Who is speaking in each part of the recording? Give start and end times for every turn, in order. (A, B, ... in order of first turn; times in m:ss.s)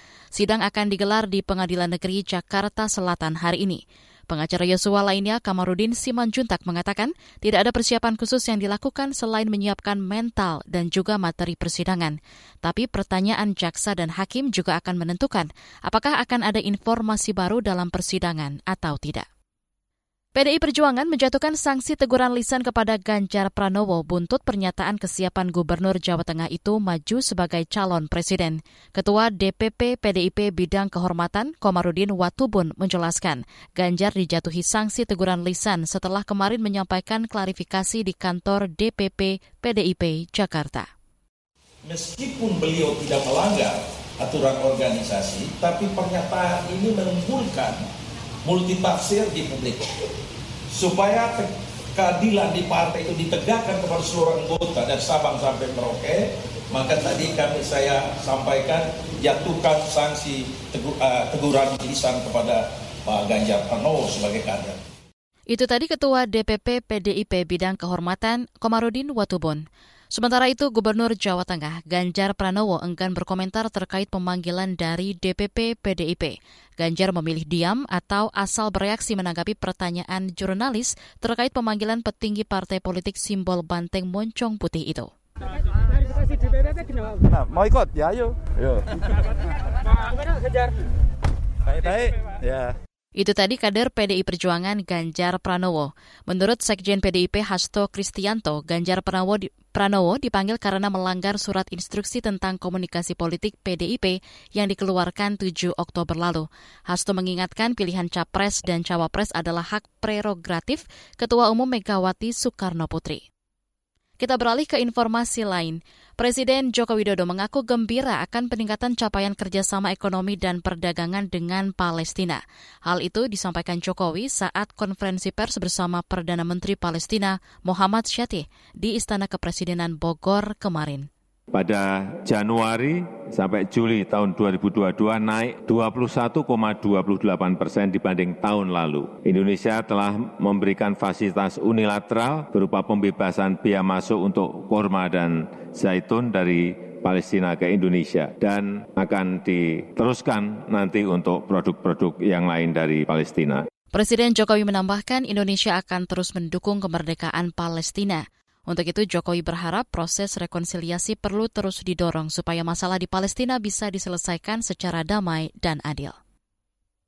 0:00.3-0:19.2 A
0:20.4-0:40.9 A
0:41.8-0:47.8 B
0:48.4-0:49.8 B
0:50.7-1:04.8 B
1:05.5-1:25.1 A
1:27.2-1:28.8 C
1:31.7-1:32.7 C
1:33.2-1:53.2 A
1:54.2-2:11.1 A
2:11.5-2:33.6 D
2:33.9-2:46.2 A